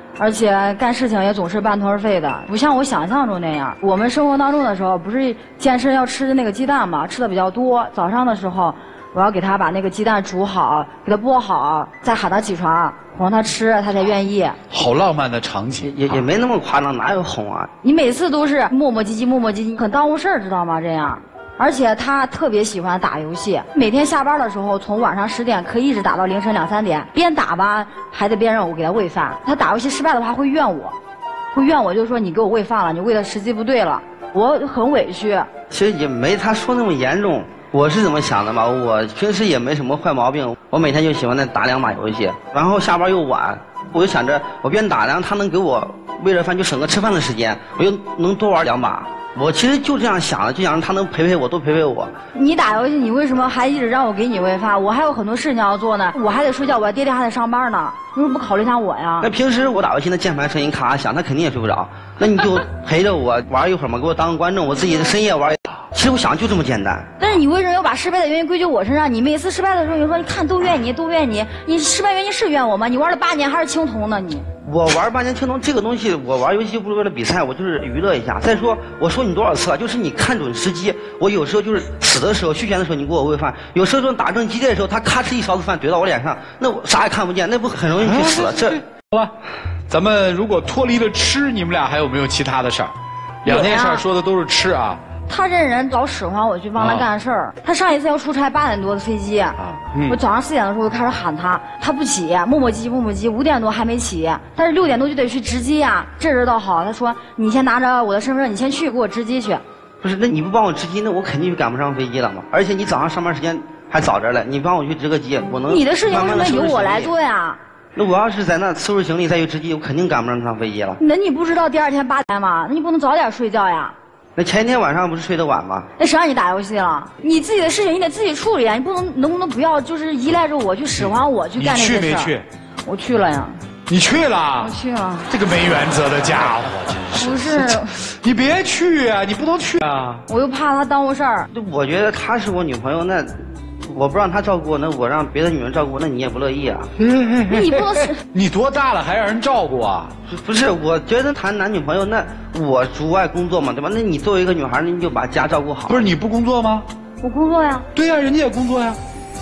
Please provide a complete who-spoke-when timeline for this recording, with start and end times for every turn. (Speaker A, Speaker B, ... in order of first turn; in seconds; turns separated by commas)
Speaker A: 0.2-14.6, Speaker B: 14.7-16.2, Speaker C: 15.8-17.7, Speaker A: 17.8-30.9, Speaker A: 31.5-35.5, Speaker C: 35.7-52.1, Speaker A: 52.3-59.3, Speaker C: 59.2-67.1, Speaker A: 67.2-74.5, Speaker C: 74.6-88.8, Speaker B: 88.2-89.3, Speaker B: 89.9-95.0, Speaker A: 93.5-94.1, Speaker A: 95.3-109.6, Speaker B: 96.8-97.1, Speaker B: 99.6-100.2, Speaker C: 110.0-117.2, Speaker A: 115.5-117.6, Speaker C: 118.0-121.0, Speaker A: 121.0-124.0, Speaker C: 124.4-125.9, Speaker A: 126.0-133.6, Speaker B: 131.6-132.4, Speaker B: 133.9-134.7, Speaker A: 134.6-135.3, Speaker B: 135.3-140.2, Speaker A: 137.1-138.0, Speaker A: 140.3-141.5, Speaker C: 141.5-146.9, Speaker B: 147.0-150.1, Speaker A: 147.5-148.2, Speaker C: 150.3-156.1, Speaker B: 155.9-156.9, Speaker A: 157.2-157.9, Speaker B: 157.9-159.0